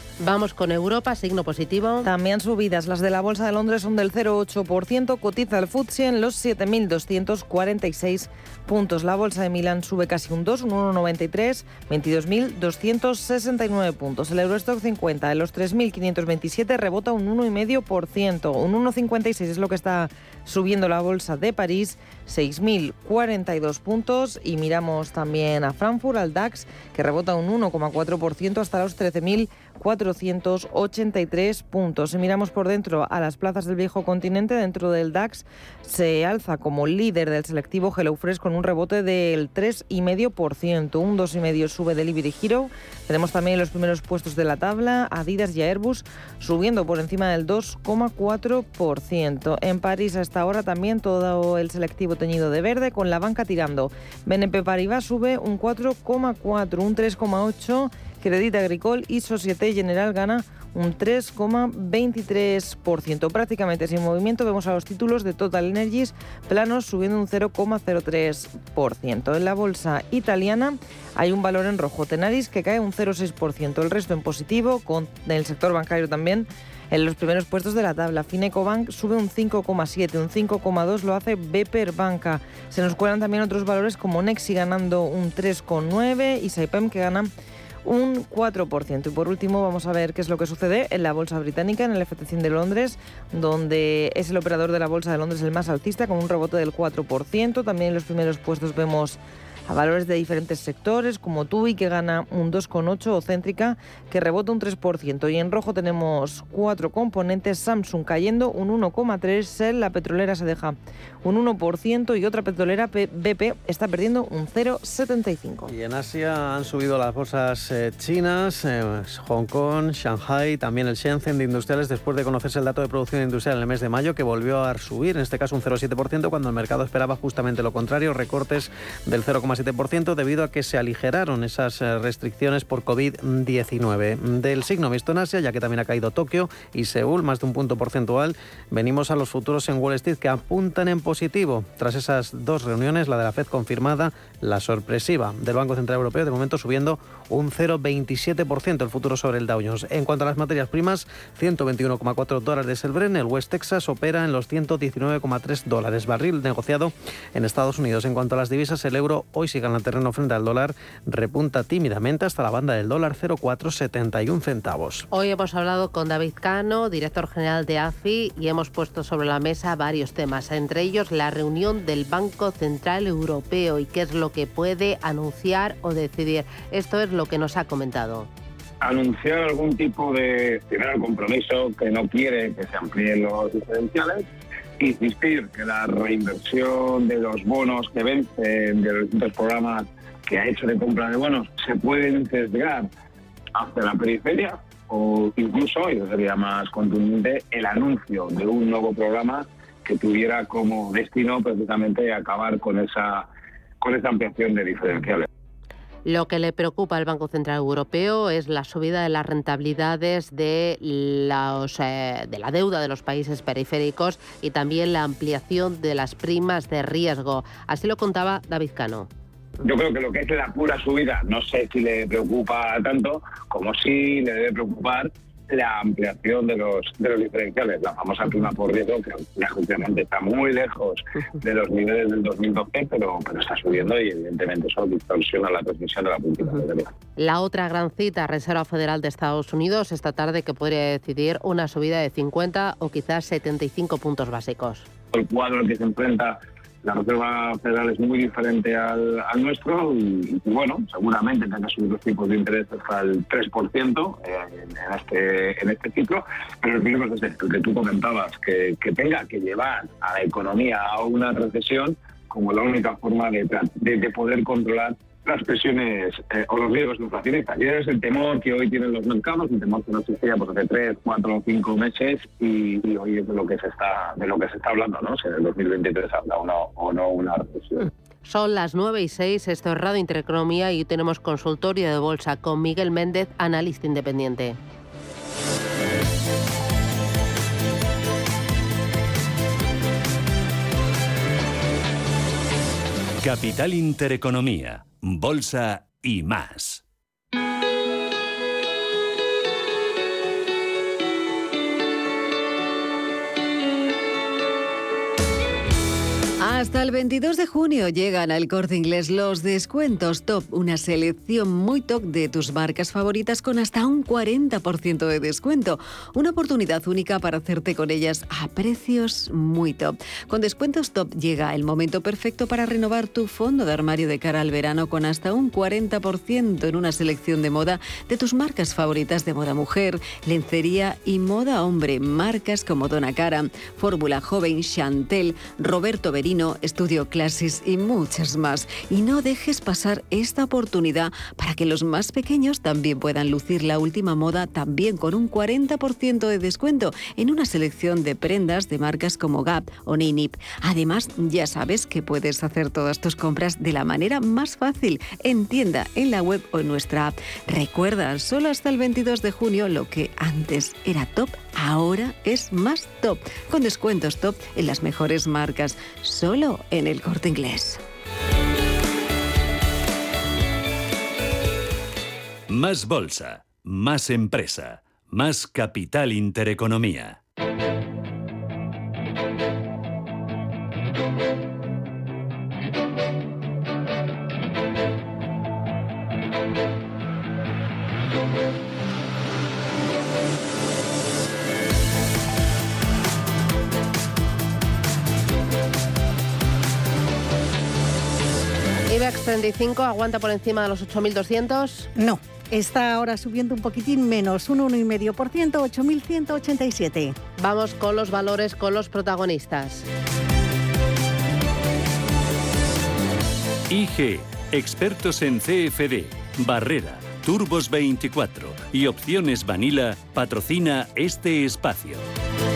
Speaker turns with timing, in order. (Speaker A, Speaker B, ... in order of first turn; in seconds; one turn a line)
Speaker A: 0.2-2.1
Speaker B: 2.0-87.3
Speaker B: 87.8-115.7
Speaker C: 115.7-165.1
Speaker A: 165.1-178.3
Speaker D: 178.8-184.2
Speaker D: 184.8-192.9
Speaker D: 193.5-203.3
Speaker D: 203.8-205.2
Speaker A: 206.1-219.1
Speaker D: 219.6-236.9
Speaker A: 237.2-244.9
Speaker D: 245.1-277.9
Speaker A: 278.2-284.6
Speaker E: 293.2-296.8
Speaker F: 306.4-367.8
Speaker E: 372.5-377.2
Speaker A: 398.9-401.9
Speaker G: 401.9-407.1
Speaker A: 407.4-409.9
Speaker E: 413.7-422.0